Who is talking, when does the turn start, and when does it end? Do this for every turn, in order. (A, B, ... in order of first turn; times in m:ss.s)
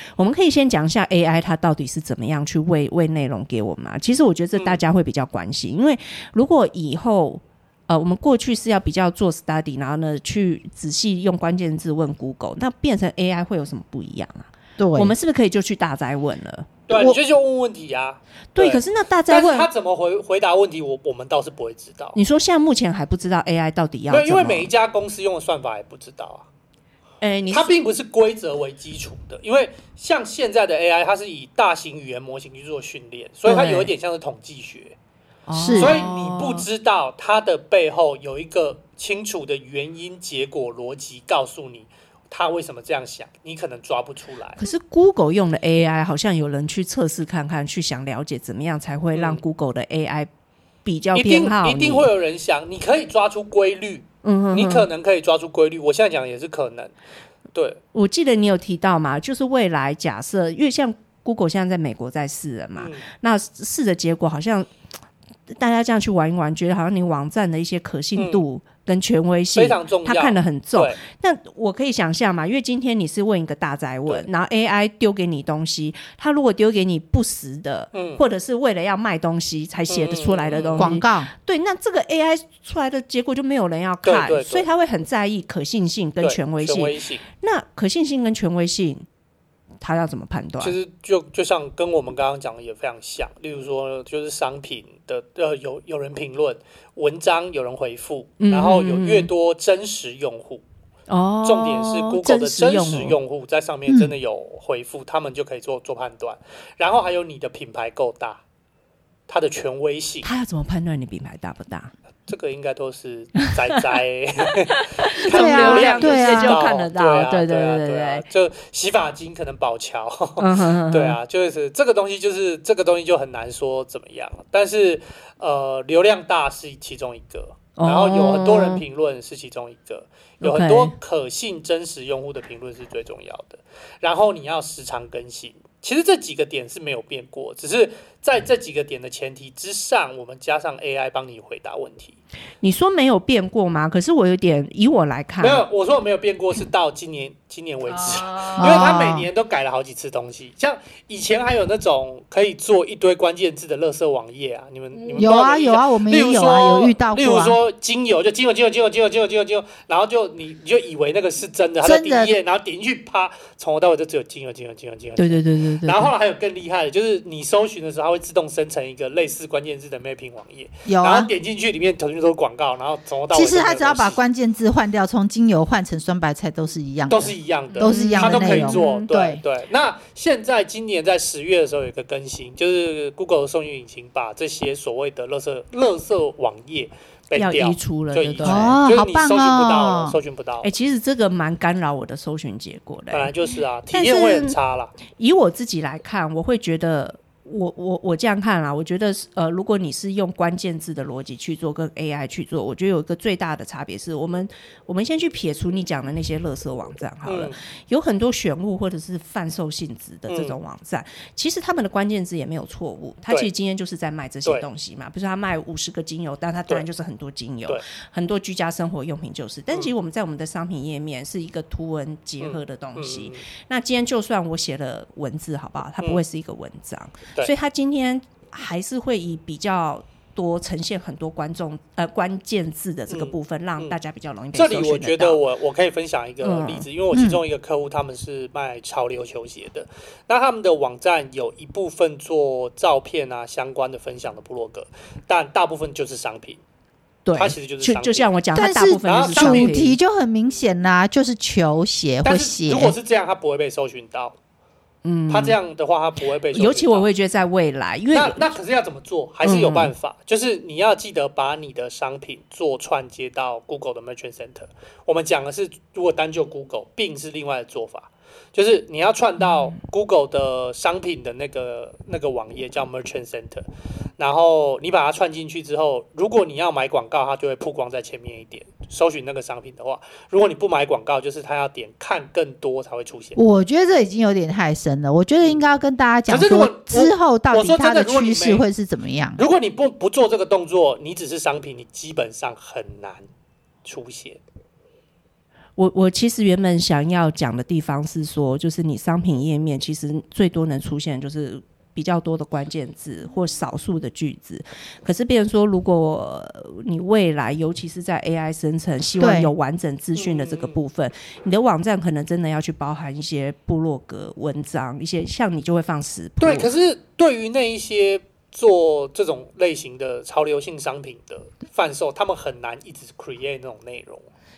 0:00.2-0:16.8 A
0:04.6-0:04.8 B
0:14.8-0:15.1 C
0:16.9-0:22.2 B
0:18.5-0:19.7 A
0:22.1-0:24.7 A
0:24.1-0:26.5 B
0:27.2-0:27.7 A
0:27.5-0:35.0 B
0:33.4-0:33.9 A
0:35.5-0:36.7 A
0:35.5-0:36.0 C
0:35.8-0:44.6 B
0:44.6-0:50.3 A
0:49.1-0:49.4 B
0:50.8-0:52.1 A
0:51.1-0:57.0 B
0:54.2-0:54.9 A
0:57.5-0:57.8 B
0:57.9-1:04.7 A
1:02.8-1:03.0 B
1:05.5-1:29.0 A
1:08.2-1:08.4 B
1:09.5-1:11.0 B
1:17.9-1:18.2 B
1:19.9-1:21.0 B
1:20.8-1:21.3 C
1:24.0-1:24.7 B
1:26.2-1:27.2 B
1:29.8-1:30.8 A
1:30.6-1:40.6 B
1:38.4-1:39.3 A
1:41.1-1:43.2 A
1:41.4-1:48.4 B
1:49.3-1:50.3 B
1:50.2-1:51.9 A
1:52.3-2:22.2 B
1:54.7-1:58.2 A
1:55.3-1:56.6 C
2:00.4-2:01.2 A
2:07.8-2:08.8 A
2:10.4-2:10.9 A
2:22.6-2:25.6 A
2:25.4-2:54.2 B
2:28.0-2:28.6 A
2:28.6-2:29.3 C
2:35.2-2:37.6 C
2:41.8-2:42.3 C
2:45.2-2:46.1 A
2:50.8-2:51.3 C
2:53.3-2:59.4 C
2:57.1-3:10.7 B
2:57.8-2:59.1 A
3:07.3-3:08.8 A
3:08.4-3:10.2 C
3:10.6-3:13.3 A
3:13.1-3:14.9 B
3:13.9-3:14.6 A
3:15.2-3:55.4 A
3:27.2-3:27.6 B
3:30.3-3:30.6 B
3:42.4-3:43.4 B
3:53.1-3:54.0 B
3:54.5-4:06.6 B
3:56.4-3:56.9 A
3:57.1-3:57.4 C
4:07.2-4:10.0 A
4:07.4-4:08.3 B
4:08.5-4:12.9 C
4:09.0-4:09.8 B
4:12.2-4:14.4 B
4:15.0-4:15.6 A
4:15.3-4:17.1 B
4:16.5-4:18.5 A
4:18.1-4:33.6 B
4:19.4-4:19.9 A
4:34.2-4:43.4 B
4:43.4-4:49.4 C
4:46.3-4:48.6 B
4:49.4-4:53.3 B
4:53.8-4:54.4 B
4:55.8-5:16.7 A
5:09.2-5:09.5 C
5:10.2-5:10.8 B
5:16.4-5:24.3 B